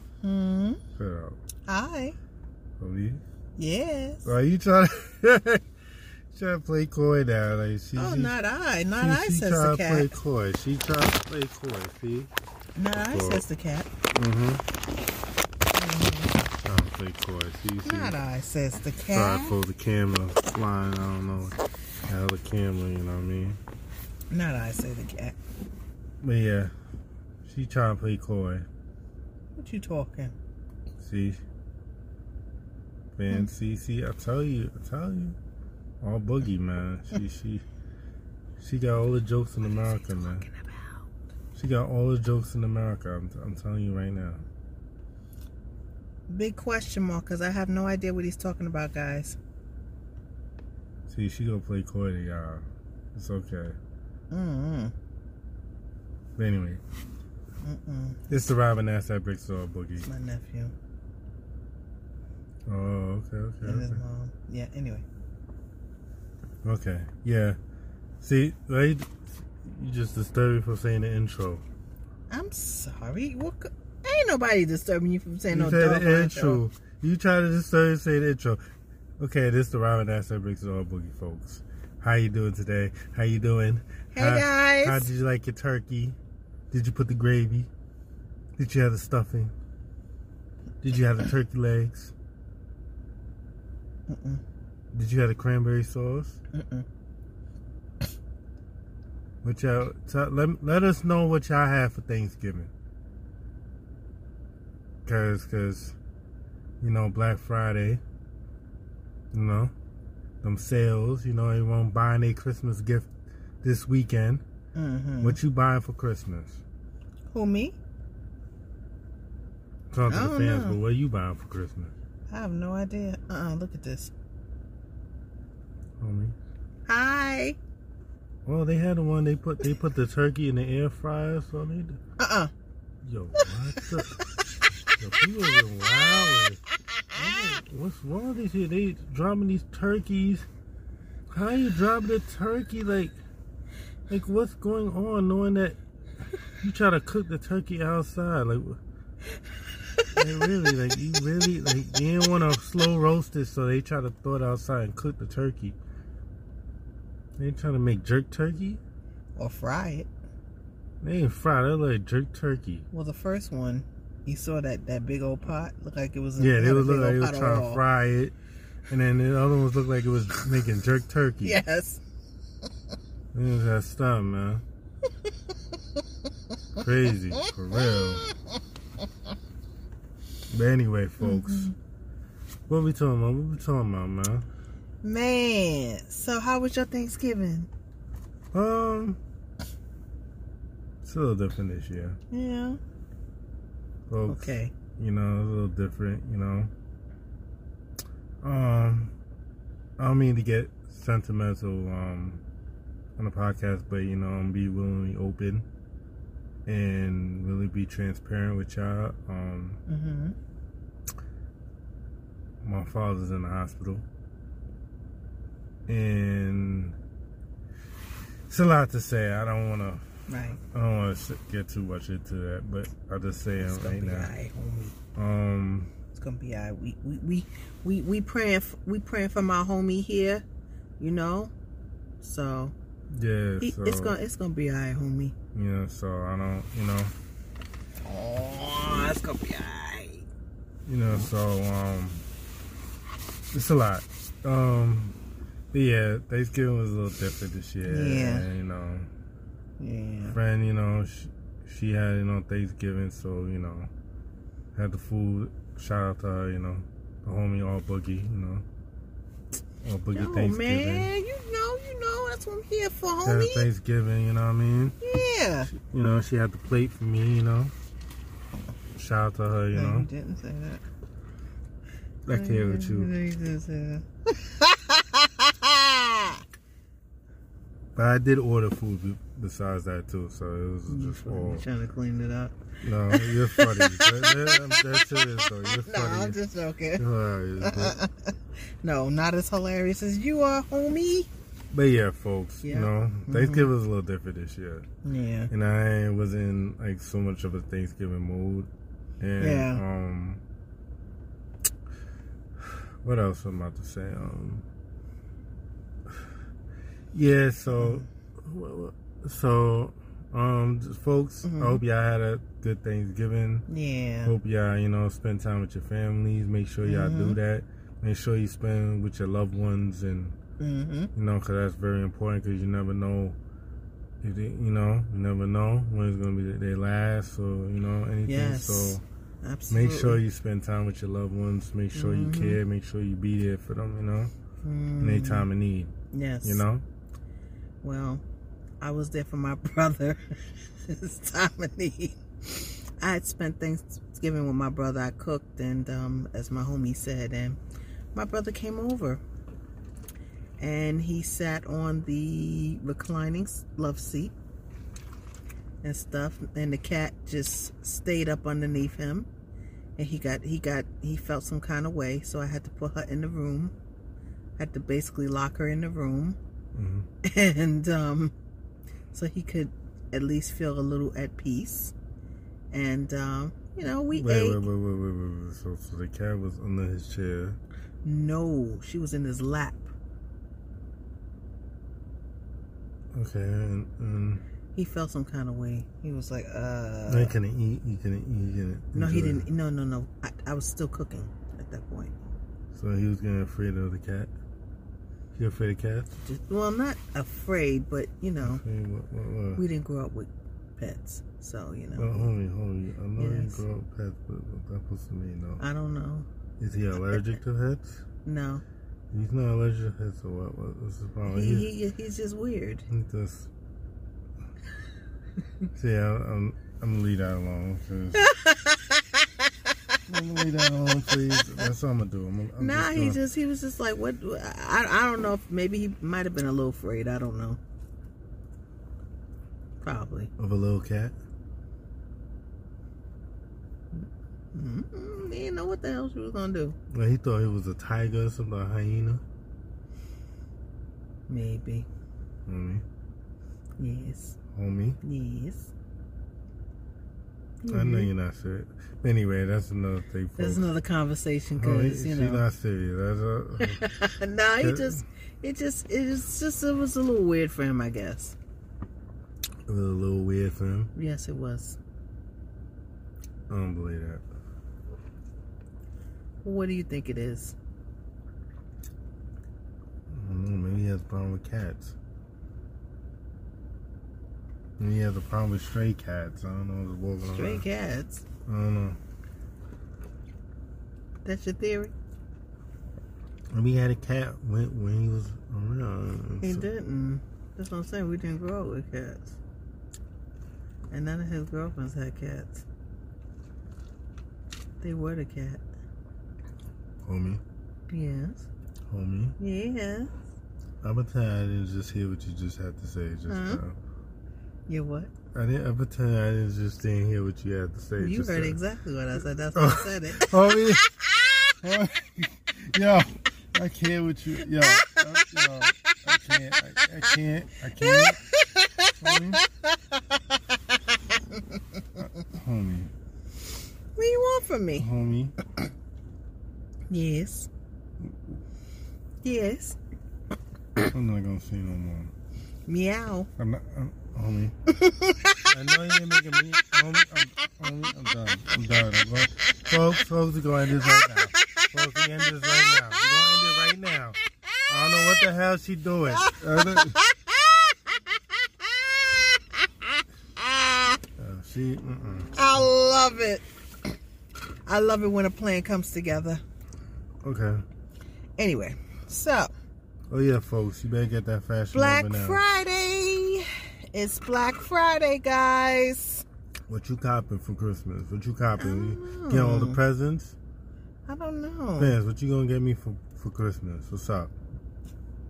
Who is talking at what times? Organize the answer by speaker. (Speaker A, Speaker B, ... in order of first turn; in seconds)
Speaker A: 0.2-0.8, 1.6-2.1, 3.6-4.3, 7.9-10.2, 12.7-13.9, 15.7-16.3, 17.8-19.6, 24.3-25.4, 29.6-30.3, 40.1-41.0, 46.3-49.4, 54.3-54.9, 57.6-58.4, 60.0-60.7, 63.6-65.0, 72.3-76.6, 84.1-85.1, 94.1-94.4, 96.5-96.8, 114.7-115.4, 117.3-117.8, 120.1-120.8, 122.3-124.1, 126.9-127.6, 132.2-132.5, 133.4-134.2, 137.1-137.6, 159.4-160.1, 162.9-167.8, 171.4-172.0, 177.4-178.4, 181.2-181.7, 185.0-187.7, 192.3-192.8, 194.3-194.7, 209.9-210.3, 220.3-220.6, 223.6-224.9, 226.1-230.4, 231.0-231.5, 232.2-232.7, 233.6-235.3, 238.0-240.2, 247.8-248.5, 249.8-250.4, 260.1-263.7, 265.0-265.7, 269.7-270.8, 272.3-276.4, 280.9-282.5, 283.1-284.8, 285.8-287.0, 287.6-291.3, 292.6-293.7, 295.0-295.5, 299.4-299.8, 307.7-308.1, 311.4-311.8, 313.7-314.4, 316.8-317.4, 320.6-321.1, 328.3-330.2, 331.9-332.6, 334.6-335.5, 336.1-336.6, 337.8-338.2, 338.8-347.6, 348.1-349.2, 350.6-354.3, 355.8-359.3, 360.0-363.7, 364.6-366.4, 367.2-368.3, 369.1-371.9, 372.7-374.6, 378.0-379.9, 384.7-387.3, 388.9-392.1, 396.2-398.6, 399.6-402.3, 403.2-403.6, 405.6-406.3, 408.2-408.6, 411.3-412.9, 418.1-420.0, 422.6-427.6, 429.8-430.3, 434.5-436.8, 441.3-441.9, 443.8-444.4, 445.0-445.7, 447.6-448.1, 450.4-452.4, 453.6-458.4, 460.9-461.8, 466.4-467.6, 477.3-478.2, 481.2-481.9, 486.4-489.4, 490.9-492.6, 494.8-495.6, 497.9-498.5, 499.4-500.1, 503.3-503.6, 504.7-505.1, 508.0-511.6, 514.5-515.9, 517.8-522.2, 524.0-524.9, 526.9-527.5, 529.2-529.8, 532.7-533.3, 534.7-535.5, 540.8-541.7, 546.1-548.0, 548.6-549.4, 550.4-550.9, 552.3-553.4, 554.6-556.4, 558.4-559.5, 561.7-566.2, 568.6-569.8, 571.0-572.0
Speaker B: 0.9-1.4, 2.8-3.2, 4.2-5.6, 6.3-8.3, 9.0-12.3, 12.9-13.4, 14.1-14.6, 16.6-18.2, 19.1-21.6, 22.1-23.6, 26.2-26.7, 27.4-28.7, 31.0-31.4, 33.1-35.4, 36.0-37.6, 38.6-40.5, 41.5-44.4, 51.1-53.8, 56.4-56.8, 58.3-60.1, 62.6-64.0, 66.6-67.6, 68.2-71.6, 75.5-78.6, 79.2-86.2, 86.7-87.7, 88.6-89.5, 90.8-92.1, 94.9-96.4, 99.4-102.7, 105.0-106.0, 106.8-108.0, 109.3-109.7, 110.4-113.1, 113.6-114.4, 115.2-116.6, 119.9-121.9, 126.0-126.3, 128.4-132.0, 133.0-134.2, 135.0-136.6, 137.1-140.5, 141.3-143.2, 144.1-145.8, 146.6-148.8, 150.1-155.8, 157.4-158.8, 161.0-162.9, 166.4-168.3, 168.9-171.6, 173.3-174.6, 176.8-178.2, 180.5-181.7, 182.7-184.5, 188.5-189.2, 191.0-192.2, 194.1-196.7, 198.4-199.1, 200.0-202.4, 203.2-205.7, 206.7-209.8, 212.6-214.0, 215.9-217.0, 218.5-224.3, 225.2-225.9, 233.1-234.2, 235.5-237.1, 240.8-242.2, 243.5-245.2, 245.7-249.1, 250.2-253.9, 254.7-258.6, 259.8-261.1, 263.2-265.0, 265.7-267.7, 268.9-270.1, 272.2-273.1, 277.9-281.6, 282.8-286.4, 287.0-288.0, 291.7-294.9, 295.5-300.4, 302.6-304.6, 307.1-313.7, 314.2-320.4, 321.1-323.4, 324.2-329.0, 329.7-334.3, 335.0-335.9, 336.4-336.8, 366.7-367.1, 374.1-377.6, 383.1-384.4, 387.1-389.5, 392.7-394.3, 395.3-396.1, 398.4-399.6, 401.9-405.6, 406.6-408.0, 409.1-411.7, 412.9-413.5, 415.7-418.3, 420.1-423.2, 430.4-431.1, 436.9-439.2, 442.4-442.8, 444.5-445.0, 447.7-450.7, 451.6-453.9, 454.6-455.0, 459.7-460.9, 463.5-464.2, 470.1-471.9, 474.8-477.6, 478.4-479.0, 483.5-486.7, 497.0-497.4, 498.9-499.4, 500.8-503.8, 505.3-508.6, 509.5-510.9, 511.6-518.2, 519.0-519.4, 522.0-522.9, 524.8-525.3, 530.8-532.1, 533.4-534.5, 535.5-544.2, 544.7-547.0, 551.2-552.7, 557.2-557.6, 560.1-562.4, 566.7-570.4, 571.8-574.3